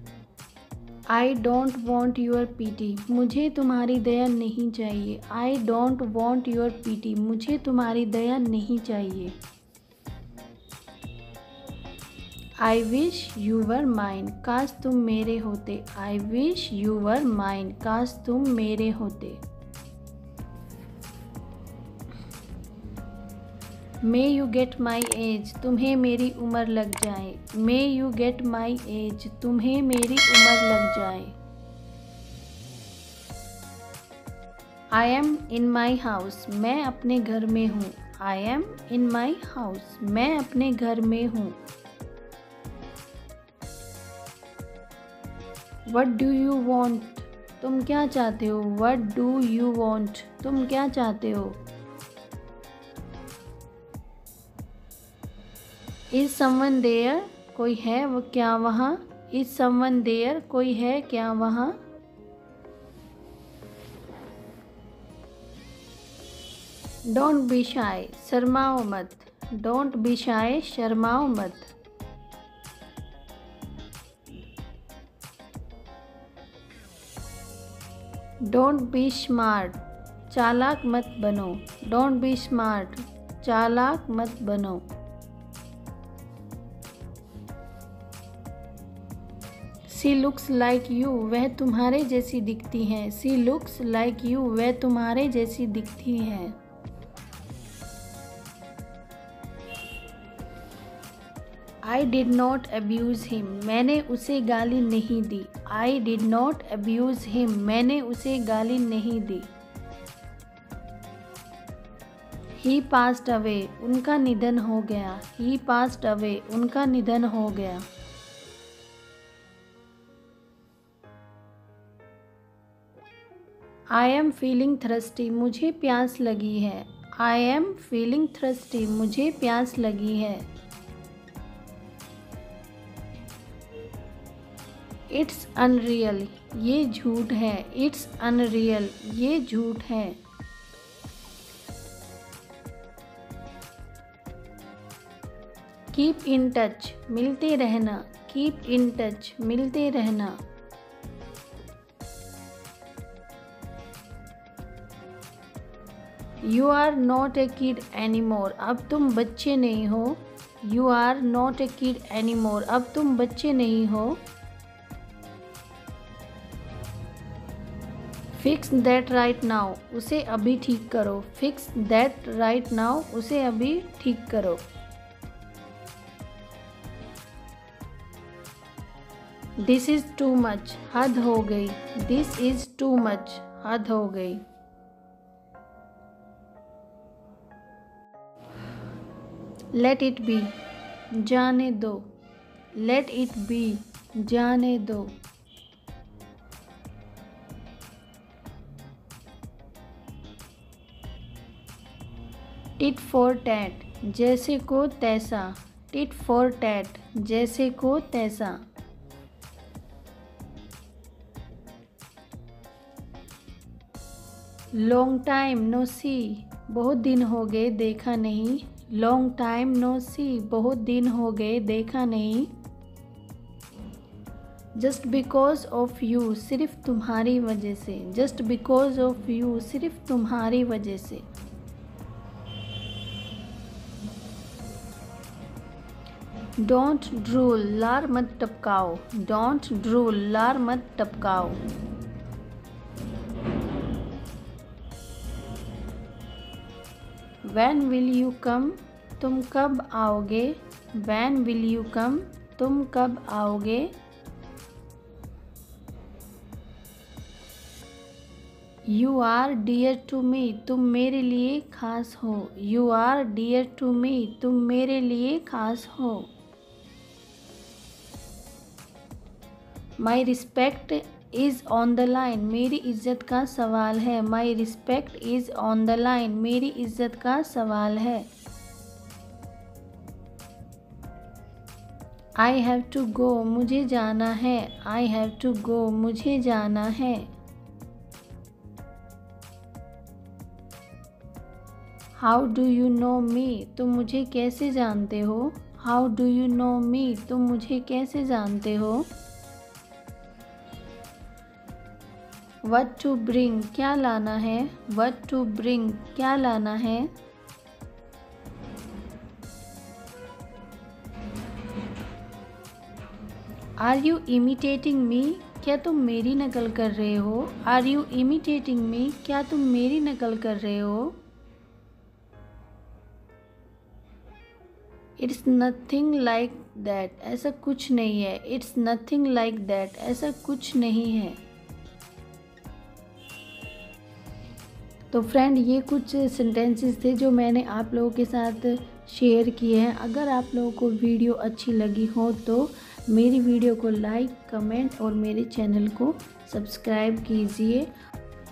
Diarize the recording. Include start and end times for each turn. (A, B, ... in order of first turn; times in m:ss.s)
0:01.1-0:09.4 A
0:12.6-0:19.4 A
0:24.0-0:31.3 A
0:34.9-0:41.6 A
0:45.9-0:51.6 A
0:56.1-1:01.8 A
1:07.1-1:11.7 A
1:18.4-1:19.8 A
1:20.3-1:24.8 A
1:29.9-1:36.6 A
1:41.8-1:49.5 A
1:52.6-1:57.8 A
2:03.9-2:10.5 A
2:15.1-2:20.2 A
2:25.9-2:30.4 A
2:36.4-2:44.2 A
2:48.3-2:54.6 A
2:59.6-3:04.4 A
3:09.7-3:10.5 A
3:11.1-3:12.1 A
3:12.8-3:15.1 A
3:22.8-3:28.6 A
3:34.7-3:42.5 A
3:44.8-3:51.2 A
3:56.6-4:01.6 A
4:07.4-4:13.9 A
4:18.8-4:26.3 A
4:30.0-4:38.3 A
4:42.4-4:47.3 A
4:52.2-4:59.1 A
5:02.6-5:07.1 A
5:13.8-5:21.2 A
5:25.2-5:31.4 A
5:35.1-5:47.9 A